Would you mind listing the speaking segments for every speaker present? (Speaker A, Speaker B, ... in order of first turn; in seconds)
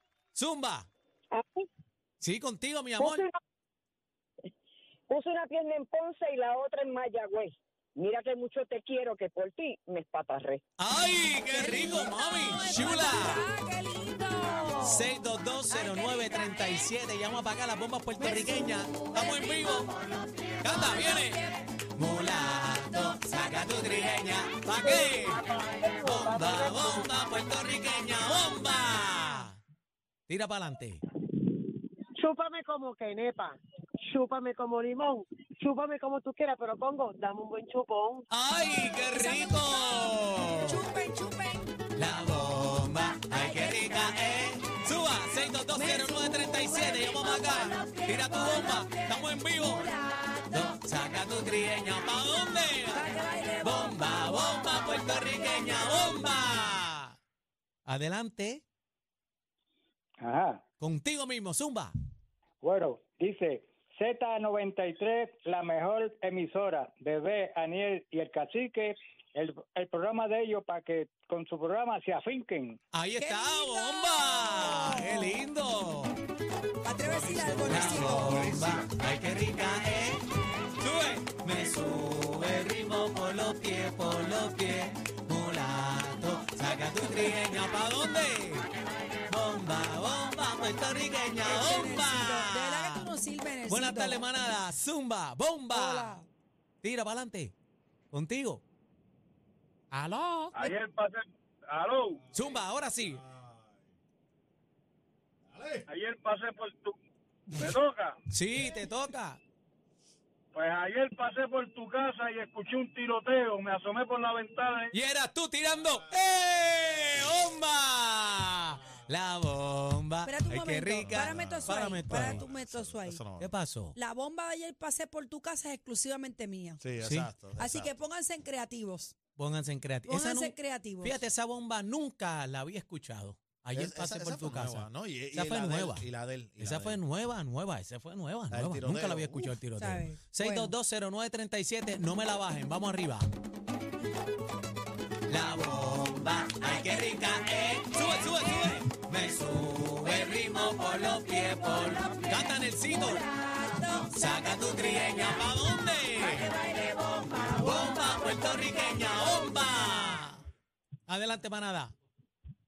Speaker A: 0.3-0.9, 2.2-3.2, 10.8-13.5, 14.8-19.9, 20.6-21.4, 22.0-29.6, 30.3-31.0, 38.3-40.8, 42.0-49.9, 50.5-53.1, 53.6-57.1, 57.9-58.6, 60.8-61.9, 73.0-76.2, 77.7-80.2, 80.8-88.7, 89.3-93.1, 93.7-96.1, 96.8-97.5, 98.1-98.6, 99.9-100.5, 102.3-103.2, 108.3-109.4, 114.9-122.4, 123.4-124.0, 127.0-127.3, 129.4-136.1, 136.6-143.3, 145.3-153.2, 154.0-156.5, 157.5-160.4, 161.1-161.9
Speaker B: 1.3-1.7, 3.0-3.4, 5.1-10.6
Speaker C: 11.5-15.1, 15.7-16.5, 18.2-19.7, 20.7-21.6, 39.1-41.7, 45.8-50.7, 52.9-56.1, 73.2-75.4, 76.8-78.4, 91.4-94.2, 95.7-96.3, 120.2-123.2, 124.0-126.8, 127.6-129.1, 130.1-131.2, 139.8-140.7, 151.9-154.3, 156.2-158.4
Speaker D: 24.8-27.1, 32.2-38.2
Speaker E: 60.2-60.6, 62.6-72.8
Speaker F: 77.0-78.9, 105.5-105.8, 121.0-123.5, 126.8-127.9, 133.7-137.0, 138.5-139.6
Speaker G: 100.5-102.2, 105.9-106.9, 107.5-108.2, 110.5-115.0